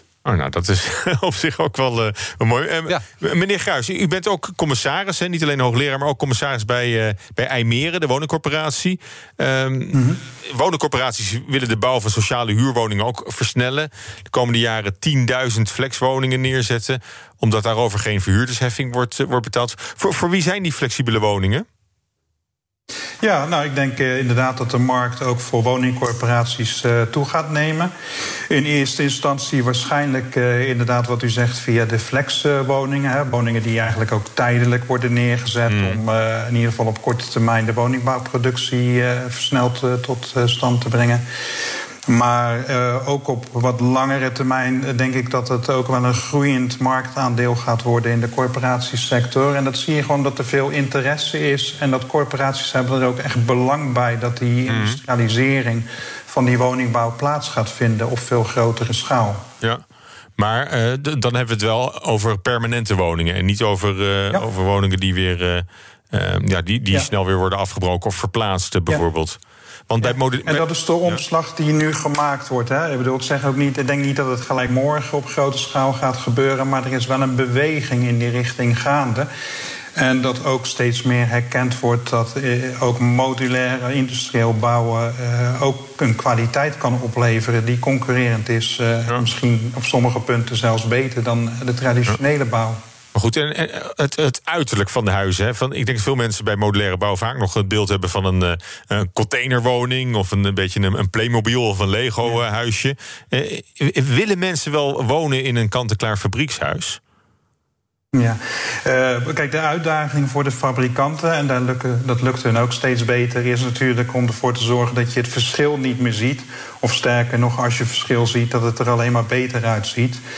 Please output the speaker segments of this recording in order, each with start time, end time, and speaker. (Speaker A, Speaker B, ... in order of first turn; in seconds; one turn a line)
Speaker A: 0.3-21.7
Speaker B: 9.9-10.2
Speaker B: 23.2-27.9
Speaker B: 28.5-41.2
Speaker A: 35.7-36.0
Speaker B: 42.1-59.5
Speaker A: 54.7-55.0
Speaker A: 60.4-69.4
Speaker A: 69.9-71.2
Speaker B: 70.0-79.3
Speaker B: 80.0-92.8
Speaker A: 93.1-107.0
Speaker B: 108.1-120.2